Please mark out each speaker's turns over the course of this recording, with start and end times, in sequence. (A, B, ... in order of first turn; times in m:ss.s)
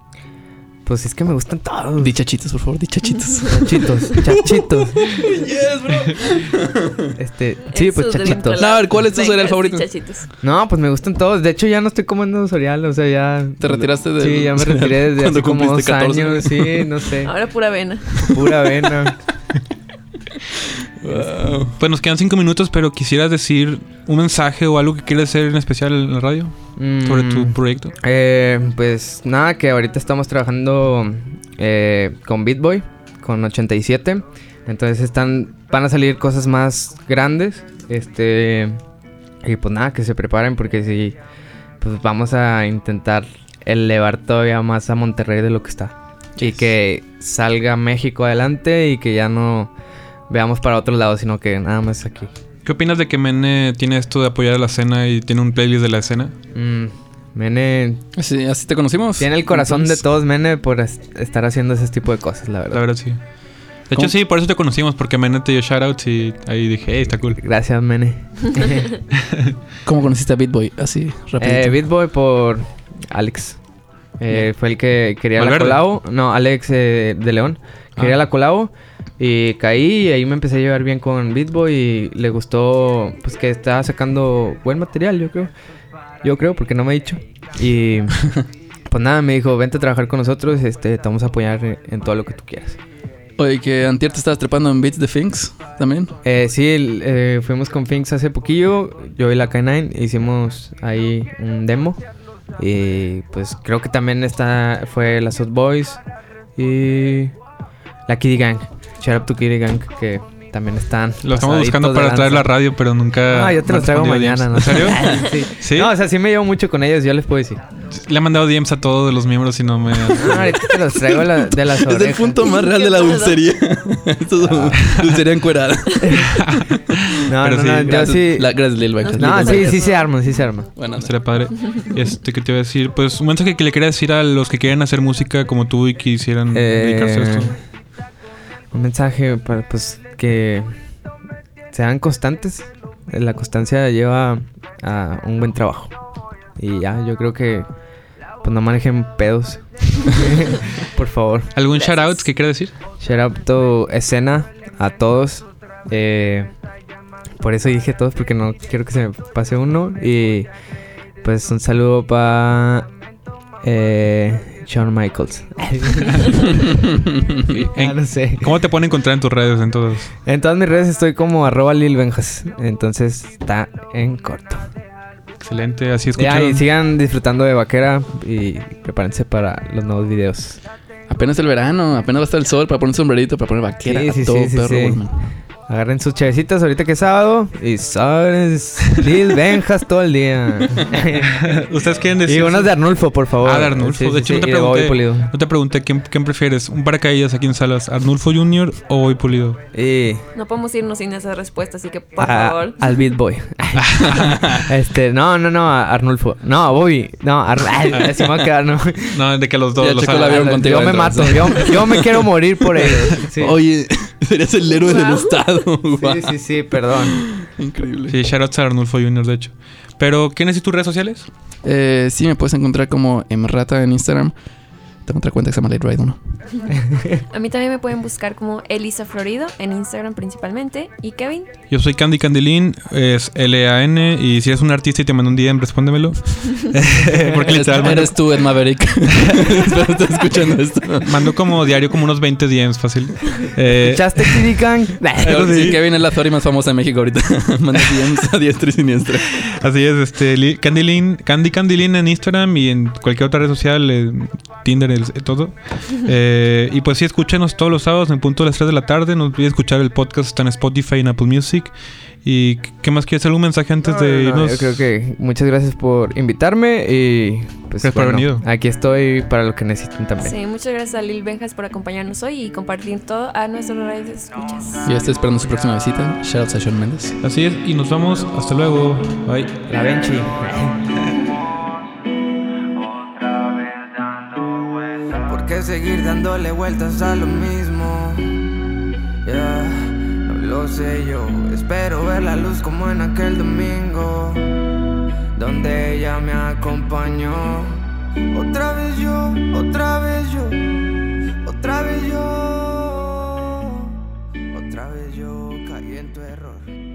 0:00.8-0:02.1 A
0:02.0-0:07.0 B
0:03.3-0:03.8 C
0:03.6-0:05.3 A
0:07.2-0:08.6 A
0:07.7-0:10.3 C
0:08.3-0:09.9 B
0:10.4-0:17.3 A
0:13.6-0:17.0 B
0:17.2-0:18.4 C
0:18.2-0:19.2 A
0:21.0-0:21.8 B
0:21.8-0:27.9 D
0:26.8-0:38.8 A
0:39.4-0:41.2 A
0:41.8-0:49.7 A
0:50.3-0:52.3 A
0:52.6-0:56.3 D
0:56.5-0:58.0 A
0:58.2-1:00.0 B
0:59.2-1:02.8 A
1:02.7-1:03.2 D
1:03.9-1:07.4 D
1:07.4-1:08.9 A
1:09.2-1:09.5 D
1:09.8-1:11.8 B
1:11.4-1:13.6 A
1:14.2-1:25.5 A
1:15.4-1:15.8 D
1:26.2-1:32.8 A
1:33.4-1:36.2 B
1:36.2-1:42.0 A
1:42.6-1:46.0 A
1:46.6-1:47.4 A
1:48.1-1:52.5 A
1:51.2-1:55.9 D
1:53.3-1:57.6 A
1:55.0-1:55.3 B
1:57.9-2:00.6 D
2:00.2-2:02.4 A
2:00.3-2:06.4 B
2:02.4-2:03.4 C
2:04.5-2:04.7 A
2:06.0-2:06.4 A
2:06.4-2:08.2 D
2:07.3-2:10.7 A
2:07.8-2:09.9 B
2:09.0-2:10.0 C
2:10.8-2:11.1 B
2:11.0-2:17.6 D
2:16.5-2:17.6 A
2:18.7-2:20.7 A
2:21.7-2:25.9 A
2:26.6-2:27.7 A
2:28.4-2:31.5 A
2:31.6-2:32.7 D
2:31.8-2:32.2 C
2:33.0-2:36.5 A
2:37.4-2:40.5 A
2:41.2-2:42.9 A
2:43.6-2:46.9 A
2:46.7-2:47.6 B
2:47.5-2:48.5 A
2:47.8-2:50.1 D
2:50.2-2:54.6 A
2:55.4-2:56.6 D
2:56.2-3:00.6 A
3:01.1-3:05.2 B
3:03.8-3:05.0 A
3:05.7-3:11.6 A
3:11.2-3:12.8 D
3:12.3-3:15.3 A
3:13.4-3:19.6 D
3:19.7-3:20.3 A
3:20.4-3:22.8 C
3:22.2-3:29.2 A
3:23.8-3:24.5 D
3:27.9-3:28.4 D
3:29.1-3:31.2 D
3:29.8-3:38.2 B
3:30.1-3:33.6 A
3:34.8-3:35.4 C
3:36.0-3:37.2 A
3:38.1-3:41.3 D
3:41.6-3:44.3 B
3:45.0-3:46.2 B
3:46.9-3:47.2 A
3:47.3-3:51.5 C
3:51.7-3:58.4 D
3:57.4-4:01.3 B
3:59.2-3:59.7 D
4:01.0-4:04.5 D
4:03.8-4:05.7 A
4:05.2-4:05.8 D
4:05.2-4:09.4 B
4:09.4-4:21.7 D
4:22.2-4:24.8 D
4:23.8-4:30.4 A
4:27.8-4:28.4 D
4:30.2-4:34.8 C
4:34.8-4:37.2 B
4:37.2-4:39.5 D
4:39.7-4:40.8 A
4:45.3-4:48.3 E
4:49.2-4:54.5 E
4:55.4-4:57.8 E
4:58.3-5:00.6 E
5:01.4-5:03.9 E
5:04.5-5:06.7 E